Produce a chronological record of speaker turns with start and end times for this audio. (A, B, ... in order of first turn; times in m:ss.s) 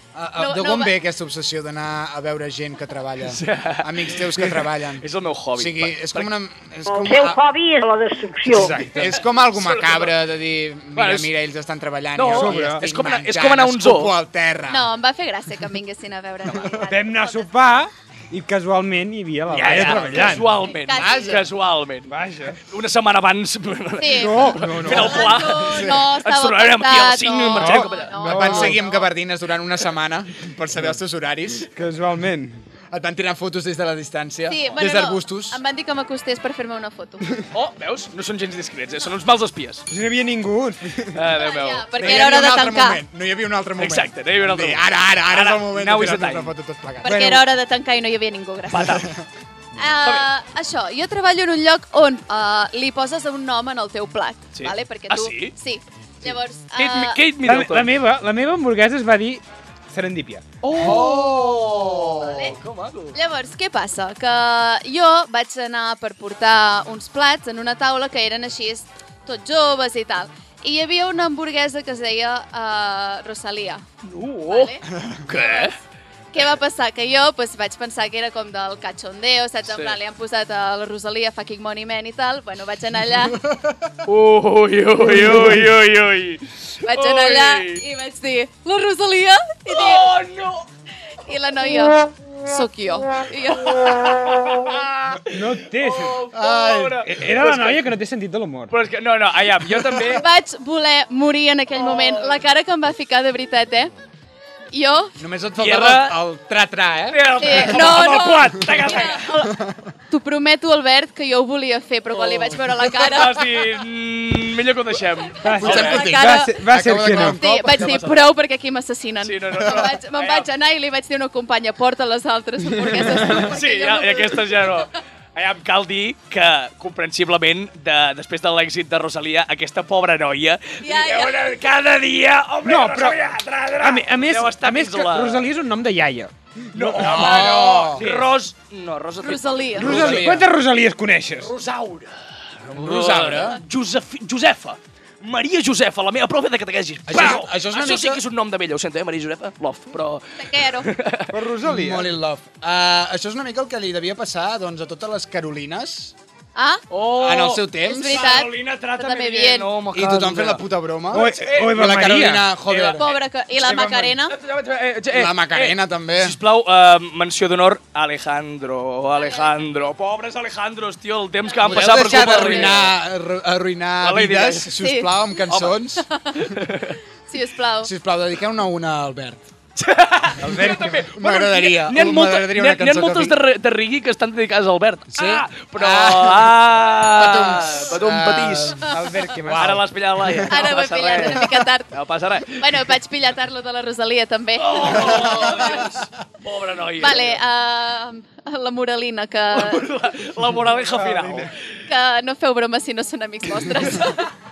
0:00.1-0:05.0 A
0:00.4-0:00.9 B
0:03.2-0:06.3 C
0:05.6-0:07.4 A
0:06.9-0:08.8 D
0:08.5-0:09.2 E
0:09.0-0:14.9 A
0:09.5-0:10.2 C
0:10.9-0:11.3 C
0:12.2-0:14.1 C
0:12.3-0:12.8 E
0:14.7-0:17.5 B
0:16.8-0:20.6 E
0:19.5-0:22.1 C
0:19.6-0:20.0 A
0:20.2-0:21.4 B
0:21.0-0:21.5 A
0:22.1-0:22.6 E
0:22.6-0:28.1 C
0:24.0-0:28.8 B
0:24.2-0:25.3 E
0:25.6-0:26.0 A
0:27.6-0:28.8 E
0:28.2-0:31.7 A
0:31.7-0:32.6 E
0:32.9-0:35.6 A
0:34.5-0:37.2 B
0:37.5-0:39.8 C
0:39.9-0:41.2 E
0:41.1-0:42.3 C
0:41.3-0:43.0 B
0:42.0-0:47.2 A
0:43.8-0:46.6 C
0:47.0-0:49.0 B
0:47.1-0:47.4 E
0:48.7-0:49.1 C
0:49.8-0:57.2 B
0:54.5-0:55.6 C
0:56.2-0:57.9 C
0:57.4-1:00.4 E
1:00.6-1:03.2 C
1:00.8-1:02.6 A
1:02.2-1:02.6 B
1:03.1-1:13.8 B
1:14.0-1:14.7 C
1:14.5-1:15.7 B
1:15.3-1:15.8 C
1:16.3-1:23.4 B
1:19.7-1:20.0 C
1:23.4-1:23.8 A
1:24.1-1:27.8 C
1:26.8-1:30.1 B
1:29.7-1:30.7 C
1:31.2-1:34.2 B
1:33.6-1:37.8 C
1:35.1-1:38.7 E
1:36.4-1:36.9 A
1:38.7-1:40.2 C
1:40.1-1:43.9 B
1:41.8-1:42.3 C
1:44.7-1:45.1 B
1:45.2-1:47.9 A
1:45.6-1:46.2 C
1:47.1-1:49.3 C
1:47.4-1:49.6 B
1:49.3-1:49.9 A
1:50.1-1:53.7 B
1:52.1-1:56.0 C
1:55.4-1:57.4 E
1:55.4-1:56.6 B
1:55.6-1:57.9 A
1:57.2-2:04.8 B
1:57.8-1:58.2 C
1:59.2-2:00.5 C
1:59.6-1:59.9 A
2:03.4-2:15.5 C
2:10.8-2:11.5 B
2:12.6-2:13.2 E
2:13.8-2:18.4 E
2:16.7-2:20.3 C
2:17.0-2:18.0 A
2:19.2-2:20.0 B
2:19.8-2:21.5 E
2:19.8-2:20.5 A
2:21.4-2:22.1 C
2:22.7-2:31.3 C
2:22.7-2:23.6 A
2:27.1-2:28.2 A
2:30.4-2:30.9 B
2:31.3-2:32.1 E
2:31.6-2:36.1 A
2:36.6-2:36.8 B
2:36.9-2:41.9 C
2:37.2-2:38.3 A
2:37.8-2:39.7 B
2:39.9-2:43.0 A
2:41.1-2:42.5 E
2:42.7-2:43.2 C
2:43.0-2:44.4 B
2:43.6-2:44.1 E
2:43.8-2:52.9 C
2:45.1-2:46.4 A
2:49.2-2:49.5 B
2:51.4-2:52.8 B
2:51.6-2:56.1 A
2:54.0-2:54.7 C
2:54.7-2:55.1 B
2:55.5-2:55.8 C
2:56.0-2:56.3 B
2:56.3-2:57.0 C
2:57.3-2:57.9 B
2:57.8-2:59.4 A
2:59.8-3:08.8 C
3:00.4-3:01.0 E
3:00.6-3:03.4 A
3:05.1-3:08.8 A
3:08.9-3:09.8 E
3:09.4-3:10.5 A
3:09.6-3:12.7 C
3:10.5-3:11.9 B
3:12.5-3:15.9 B
3:14.6-3:17.4 C
3:14.9-3:15.9 A
3:17.0-3:19.8 B
3:19.5-3:21.5 C
3:20.9-3:21.5 E
3:21.9-3:24.2 B
3:23.9-3:24.2 C